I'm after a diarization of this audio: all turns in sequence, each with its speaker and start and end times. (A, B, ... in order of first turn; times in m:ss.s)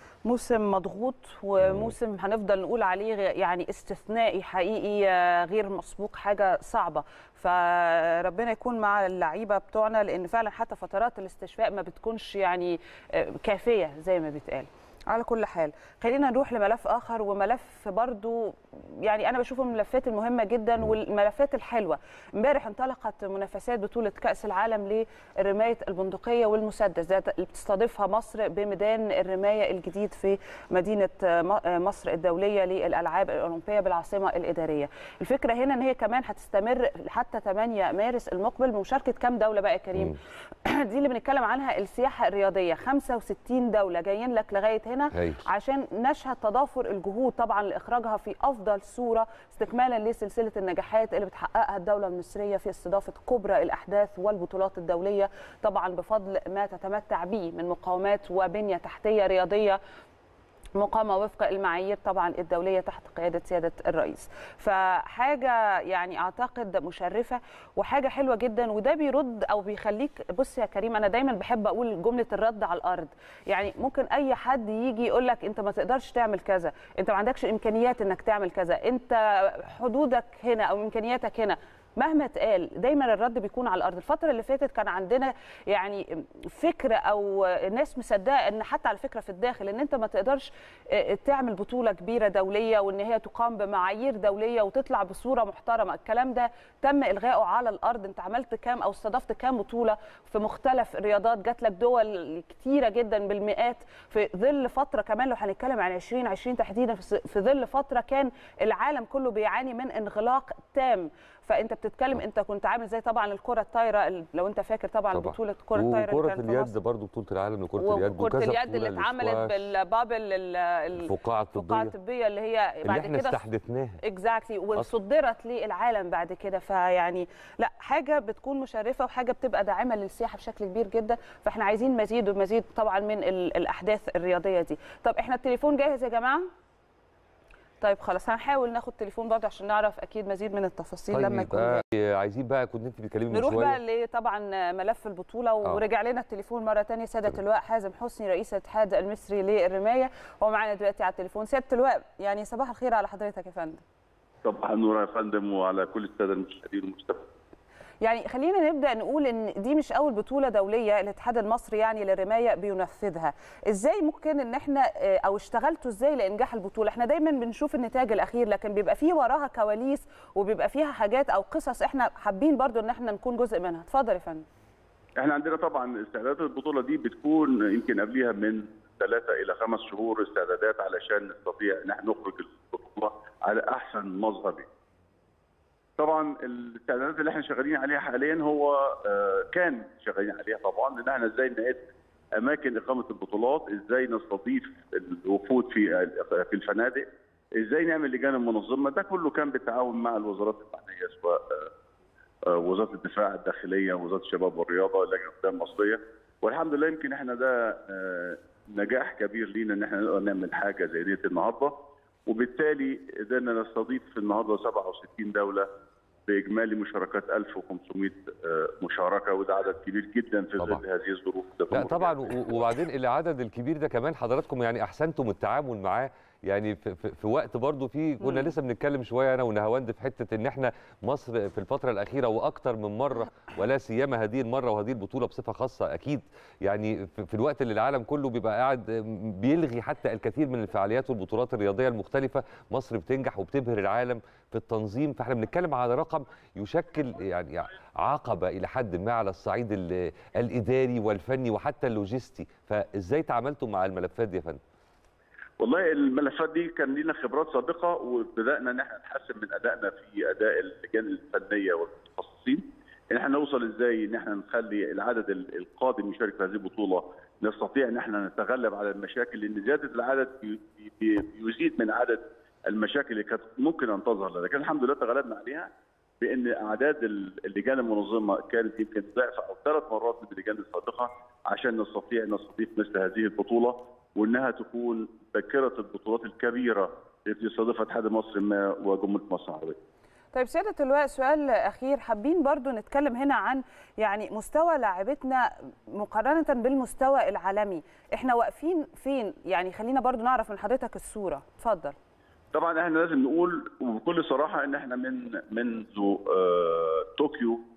0:00.2-0:59.8 A
0:01.6-0:01.9 B
0:45.1-0:45.4 B
1:00.7-1:56.7 A
1:55.1-1:59.5 B
1:57.8-2:03.4 A
2:01.0-2:01.9 B
2:02.8-2:04.0 B
2:04.0-2:16.5 A
2:17.8-2:21.8 A
2:21.1-2:23.8 B
2:23.3-2:33.8 A
2:34.4-2:37.2 C
2:38.0-2:54.4 A
2:55.2-3:04.7 C
3:06.0-3:21.7 C
3:22.5-3:31.7 C
3:32.3-3:35.7 C
3:36.3-3:42.6 C
3:41.7-4:14.6 B
3:48.2-3:48.5 A
4:15.6-4:35.7 C
4:36.2-4:49.8 C
4:50.3-5:01.9 A
5:02.5-5:07.6 C